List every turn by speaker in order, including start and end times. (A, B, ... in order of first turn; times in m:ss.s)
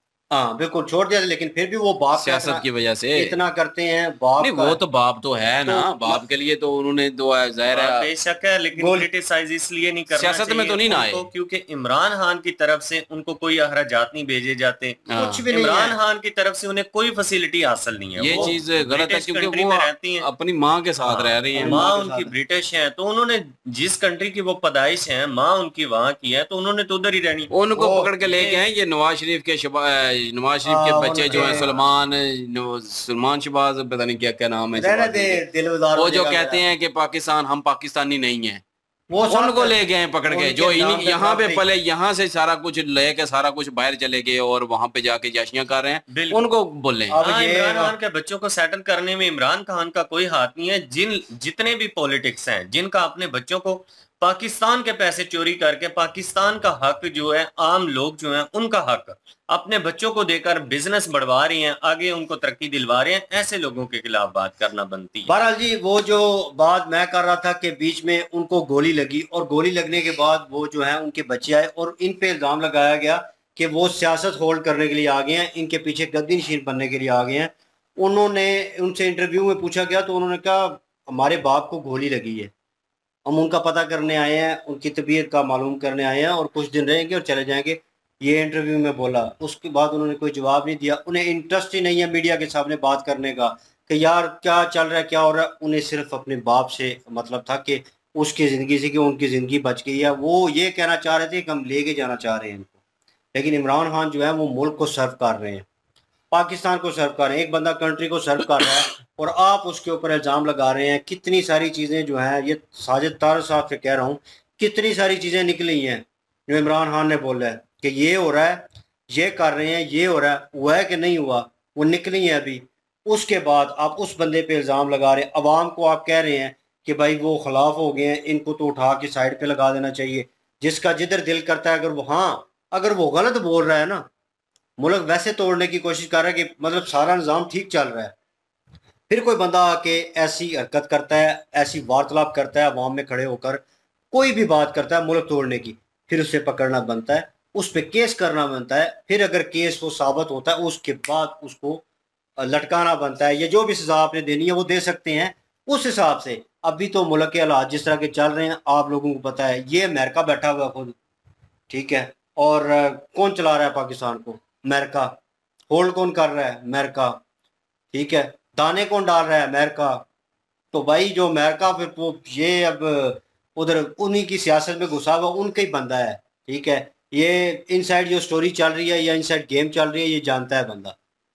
0:00.3-0:02.6 A
0:02.1-0:03.3 B
0:03.2-0:04.8 A
0:04.4-0:08.1 B
0:05.7-0:06.2 A
0:07.7-0:20.3 C
0:08.8-0:09.1 A
0:10.1-0:11.3 B
0:15.1-0:15.4 B
0:15.2-0:16.0 A
0:18.2-0:21.9 B
0:21.0-0:22.3 A
0:21.6-0:27.5 C
0:27.5-0:35.4 B
0:27.8-0:28.1 A
0:28.3-0:28.6 C
0:30.6-0:31.8 A
0:34.8-0:36.6 A
0:36.0-0:38.6 B
0:39.1-0:41.6 A
0:39.3-0:47.2 B
0:46.1-0:46.5 C
0:47.1-0:47.9 A
0:47.2-1:05.3 C
1:05.3-1:22.5 A
1:23.3-1:42.8 A
1:43.3-1:45.7 A
1:46.3-2:14.1 A
2:14.8-2:18.1 A
2:19.1-2:31.8 A
2:32.4-2:41.0 A
2:41.7-2:45.2 A
2:45.7-2:47.2 A
2:47.9-2:50.0 A
2:50.7-3:01.0 A